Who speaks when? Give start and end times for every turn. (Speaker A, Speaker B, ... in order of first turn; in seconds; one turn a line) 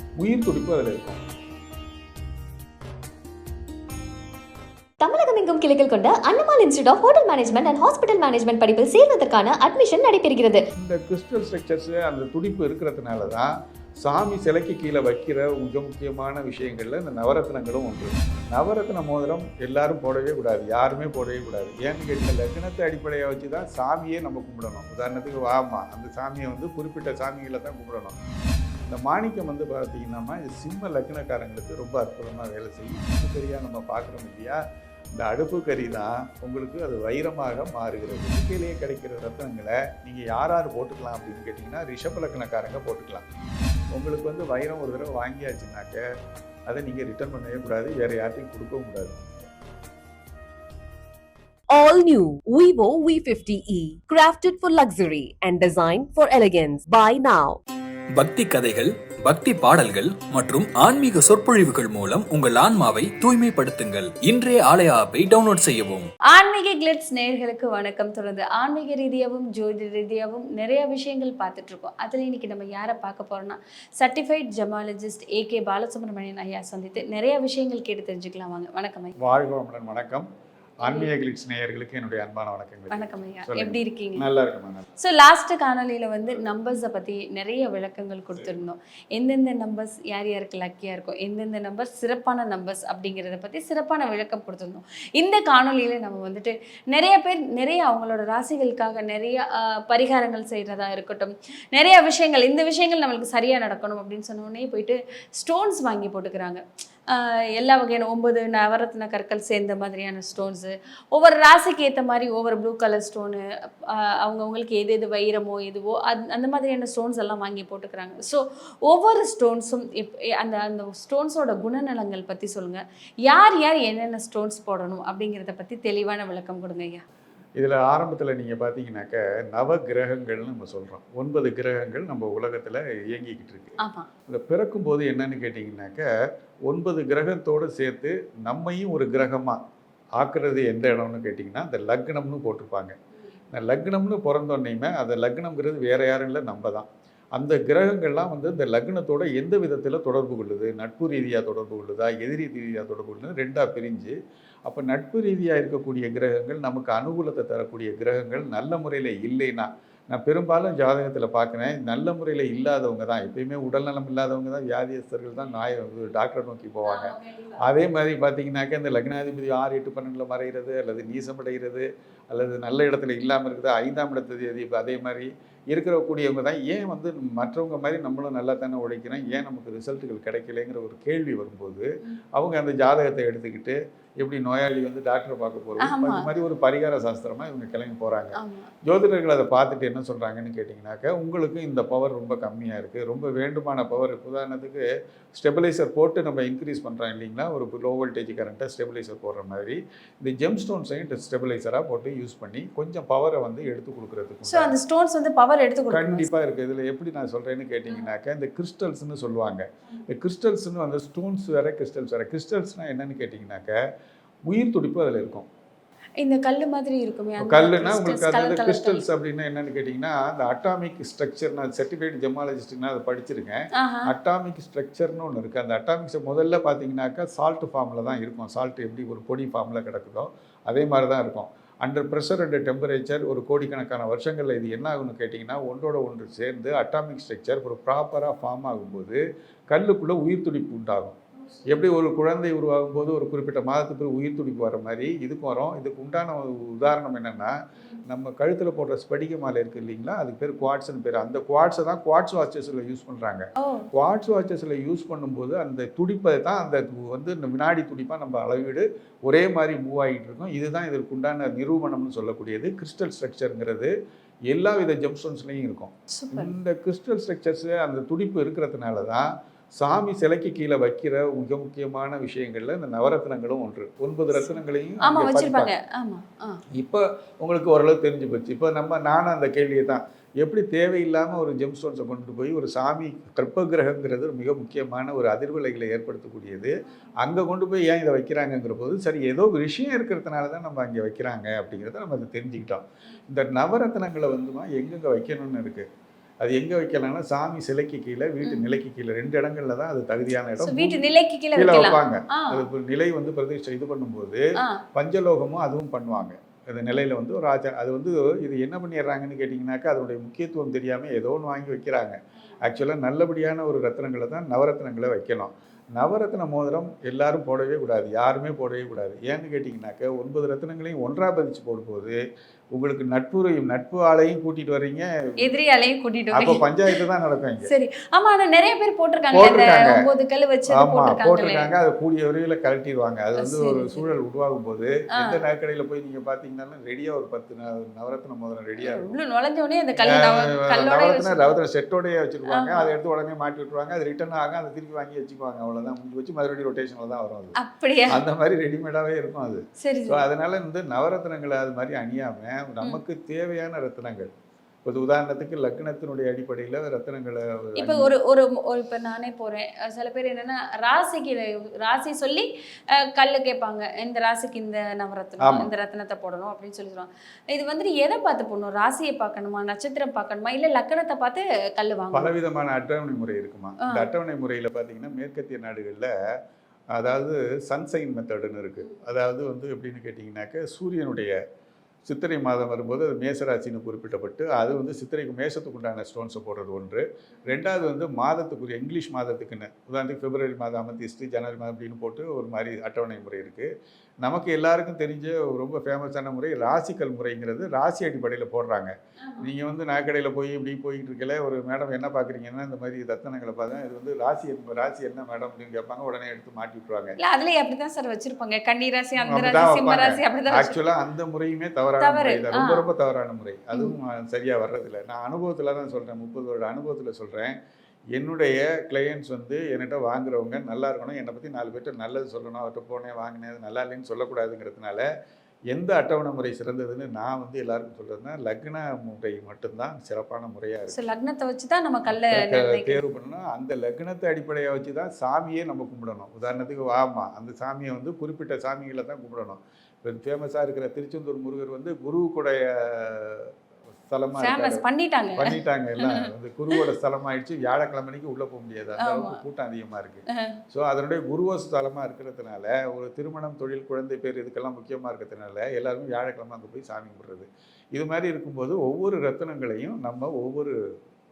Speaker A: 0.2-1.2
Speaker B: 5.0-10.6
Speaker A: 10.8-28.2
Speaker A: 28.9-34.6
Speaker A: 35.1-43.2
Speaker A: 43.9-46.0
Speaker A: 46.7-49.2
Speaker C: 51.7-57.6
Speaker D: 58.2-66.1
Speaker E: 66.3-79.3
Speaker A: 79.2-80.3
Speaker A: 80.8-84.9
Speaker E: 80.8-81.1
Speaker E: 82.9-84.2
Speaker E: 85.0-127.0
Speaker A: 127.6-136.1
Speaker E: 133.8-134.1
Speaker A: 136.7-139.6
Speaker A: 140.2-142.9
Speaker A: 143.5-154.1
Speaker A: 154.7-204.8
Speaker E: 166.8-167.6
Speaker E: 185.8-186.3
Speaker E: 188.3-188.7
Speaker E: 204.4-206.3
Speaker A: 205.9-213.8
Speaker A: 214.4-215.5
Speaker E: 216.2-219.0
Speaker A: 217.4-247.5
Speaker E: 223.8-224.1
Speaker A: 248.0-263.9
Speaker E: 253.6-253.8
Speaker A: 264.5-275.7
Speaker E: 266.1-266.5
Speaker E: 274.4-276.6
Speaker A: 276.7-295.9
Speaker A: 296.4-301.0
Speaker E: 298.4-298.7
Speaker E: 300.6-302.7
Speaker A: 301.5-322.2
Speaker A: 322.8-325.5
Speaker E: 325.4-327.0
Speaker A: 326.3-327.7
Speaker E: 327.6-331.7
Speaker A: 329.3-330.1
Speaker A: 330.7-339.1
Speaker E: 333.4-334.1
Speaker E: 338.8-341.6
Speaker A: 340.0-347.6
Speaker E: 342.5-342.9
Speaker E: 347.6-348.2
Speaker A: 348.1-354.3
Speaker E: 349.8-350.2
Speaker A: 354.8-358.1
Speaker E: 357.8-372.3
Speaker A: 365.4-365.7
Speaker A: 372.1-376.1
Speaker A: 376.9-381.3
Speaker A: 382.1-393.7
Speaker A: 394.2-407.1
Speaker E: 407.2-410.8
Speaker A: 409.2-417.6
Speaker E: 412.0-412.9
Speaker A: 418.1-425.1
Speaker A: 425.7-431.0
Speaker E: 430.9-433.0
Speaker A: 432.1-443.5
Speaker A: 444.1-444.8
Speaker E: 444.4-446.2
Speaker A: 445.4-460.7
Speaker E: 449.0-449.4